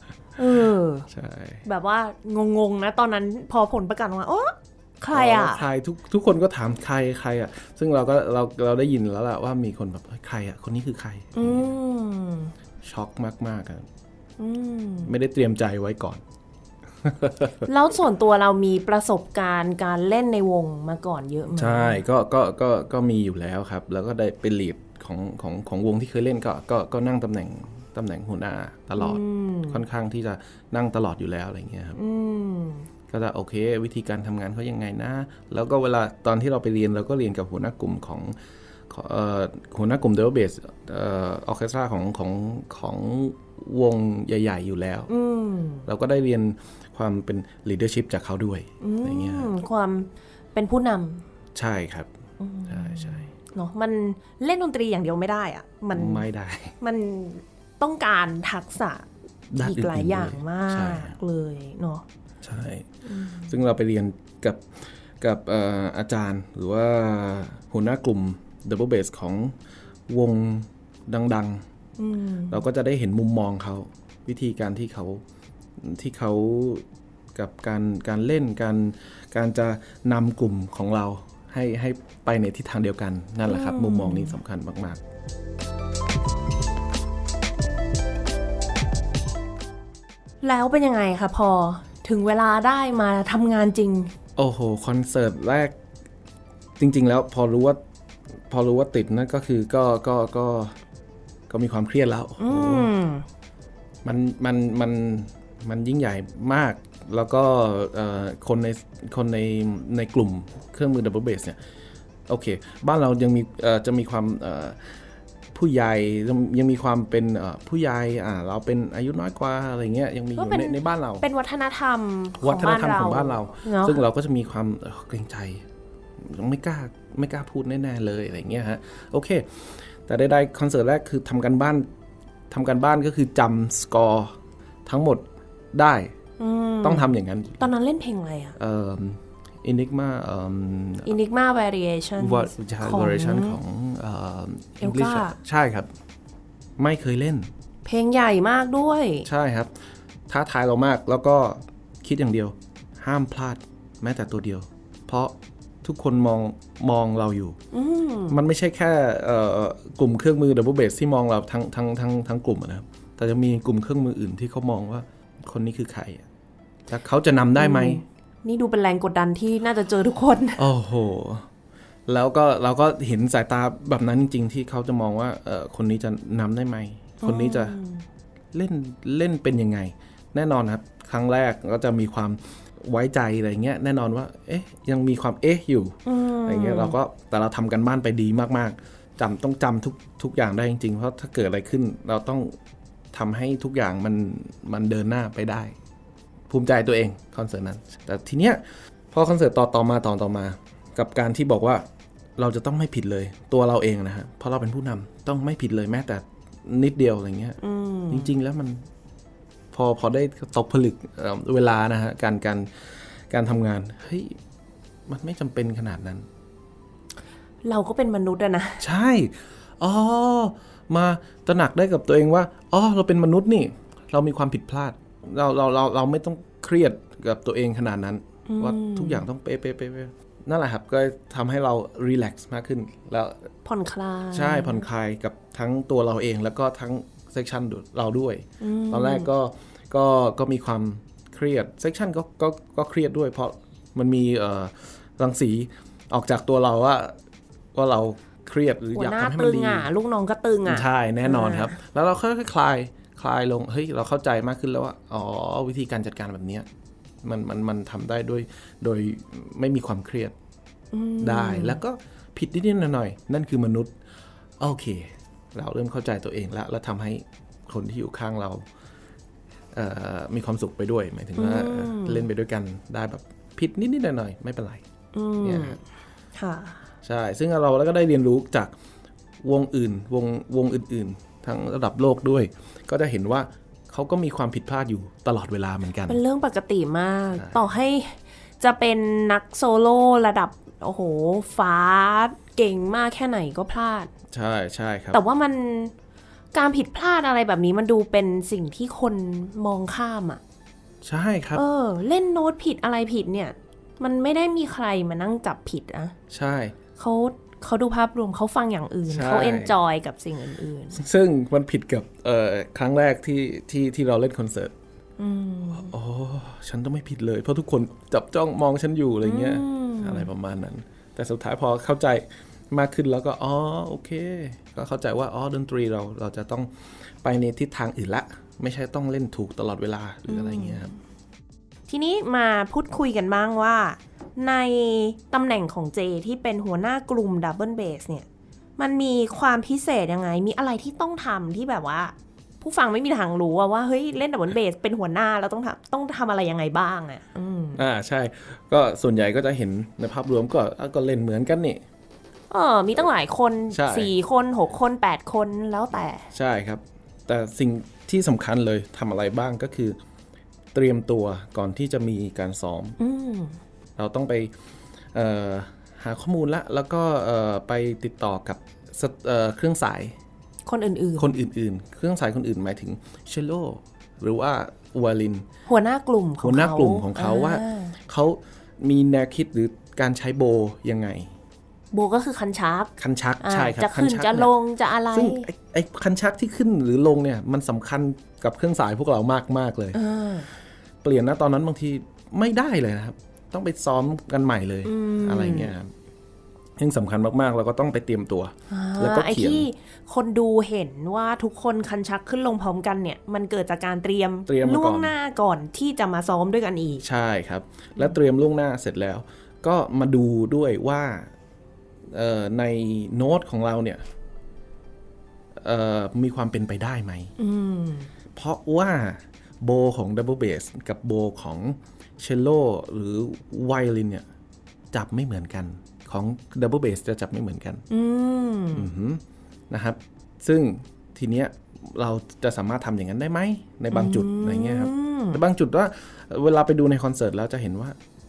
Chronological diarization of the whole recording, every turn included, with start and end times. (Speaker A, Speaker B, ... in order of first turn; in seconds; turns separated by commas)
Speaker A: 0.4-1.1, Speaker B: 1.1-1.6, Speaker A: 1.6-5.7, Speaker B: 5.1-11.7, Speaker A: 11.3-12.5, Speaker B: 12.8-13.9, Speaker A: 14.4-15.1, Speaker B: 15.0-16.2, Speaker B: 17.0-17.7, Speaker A: 17.6-22.0, Speaker B: 21.5-32.0, Speaker A: 29.0-29.8, Speaker A: 31.9-32.9, Speaker B: 33.1-38.4, Speaker B: 38.9-45.1, Speaker A: 45.1-45.9, Speaker B: 45.9-49.5, Speaker A: 48.8-51.2, Speaker B: 51.5-52.1, Speaker A: 52.4-56.3, Speaker B: 52.7-53.3, Speaker B: 55.9-56.8, Speaker A: 56.8-59.1, Speaker B: 59.5-61.2, Speaker A: 59.6-62.0, Speaker B: 62.4-62.9, Speaker A: 63.0-63.6, Speaker B: 63.5-64.7, Speaker B: 65.2-69.5, Speaker B: 70.1-71.6, Speaker A: 72.0-72.6, Speaker B: 72.5-75.2, Speaker B: 75.8-76.8, Speaker B: 77.3-85.0, Speaker A: 83.5-84.4, Speaker A: 90.4-94.1, Speaker B: 94.4-95.8, Speaker B: 96.8-97.8, Speaker B: 98.5-100.8, Speaker B: 101.5-102.9, Speaker A: 102.4-103.3, Speaker B: 104.0-111.6, Speaker B: 112.3-114.8, Speaker B: 115.5-121.3, Speaker A: 120.4-124.0, Speaker B: 122.4-125.6, Speaker B: 126.2-131.9, Speaker B: 132.5-136.2, Speaker A: 136.4-138.6, Speaker B: 136.8-137.7, Speaker B: 138.6-141.1, Speaker A: 141.1-143.6, Speaker B: 142.2-145.9, Speaker A: 144.8-145.4, Speaker B: 146.8-147.5, Speaker A: 147.8-149.3, Speaker B: 149.2-149.7, Speaker B: 150.3-157.6, Speaker A: 157.7-158.4, Speaker B: 158.3-166.2, Speaker B: 166.9-168.0, Speaker A: 167.6-170.6, Speaker B: 170.6-171.5, Speaker B: 172.1-177.8, Speaker A: 177.2-178.1, Speaker B: 178.5-192.6, Speaker A: 186.1-187.0, Speaker B: 193.1-195.8, Speaker B: 196.5-198.6, Speaker B: 199.1-201.8, Speaker B: 202.4-207.6, Speaker A: 207.6-208.3, Speaker B: 208.1-208.9, Speaker B: 209.7-214.4, Speaker B: 215.1-216.3, Speaker A: 217.6-218.8, Speaker B: 218.8-233.5, Speaker A: 228.5-229.2, Speaker A: 233.7-234.9, Speaker B: 234.3-247.2, Speaker A: 238.6-239.3, Speaker B: 247.8-249.9, Speaker A: 248.9-251.8, Speaker B: 250.7-256.7, Speaker B: 257.2-260.3, Speaker A: 260.9-261.8, Speaker B: 261.2-263.9, Speaker B: 264.6-268.6, Speaker B: 269.7-274.8, Speaker A: 271.4-272.3, Speaker A: 275.1-275.8, Speaker B: 275.4-275.8, Speaker A: 276.4-276.9, Speaker B: 277.0-278.7, Speaker B: 279.4-286.2, Speaker A: 286.1-294.1, Speaker B: 287.3-287.6, Speaker B: 294.3-295.2, Speaker A: 295.1-295.9, Speaker A: 296.5-300.4, Speaker B: 301.0-301.6, Speaker A: 301.6-306.1, Speaker B: 306.3-306.8, Speaker A: 307.0-311.0, Speaker B: 309.1-309.8, Speaker B: 310.9-314.7, Speaker A: 315.2-315.9, Speaker B: 315.7-330.9, Speaker A: 319.2-320.3, Speaker A: 330.3-330.9, Speaker A: 331.9-338.3, Speaker A: 338.8-347.8, Speaker B: 347.8-351.8, Speaker A: 352.5-356.3, Speaker B: 353.7-354.1, Speaker B: 356.3-360.0, Speaker B: 360.7-363.0, Speaker A: 363.0-363.6, Speaker B: 364.0-364.5, Speaker B: 365.1-370.2, Speaker A: 370.7-371.3, Speaker B: 371.2-375.4, Speaker A: 375.7-378.0, Speaker B: 376.4-381.3, Speaker A: 381.9-385.5, Speaker B: 383.0-384.5, Speaker B: 385.1-390.0, Speaker A: 389.9-390.5, Speaker B: 391.0-395.9, Speaker A: 394.9-395.7, Speaker B: 396.8-399.7, Speaker A: 398.7-407.0, Speaker B: 404.5-405.1, Speaker B: 407.0-411.3, Speaker B: 412.1-414.0, Speaker B: 415.6-417.3, Speaker A: 417.4-418.1, Speaker B: 418.4-424.2, Speaker B: 424.9-427.8, Speaker A: 427.9-428.9, Speaker B: 428.7-438.0, Speaker A: 433.9-435.4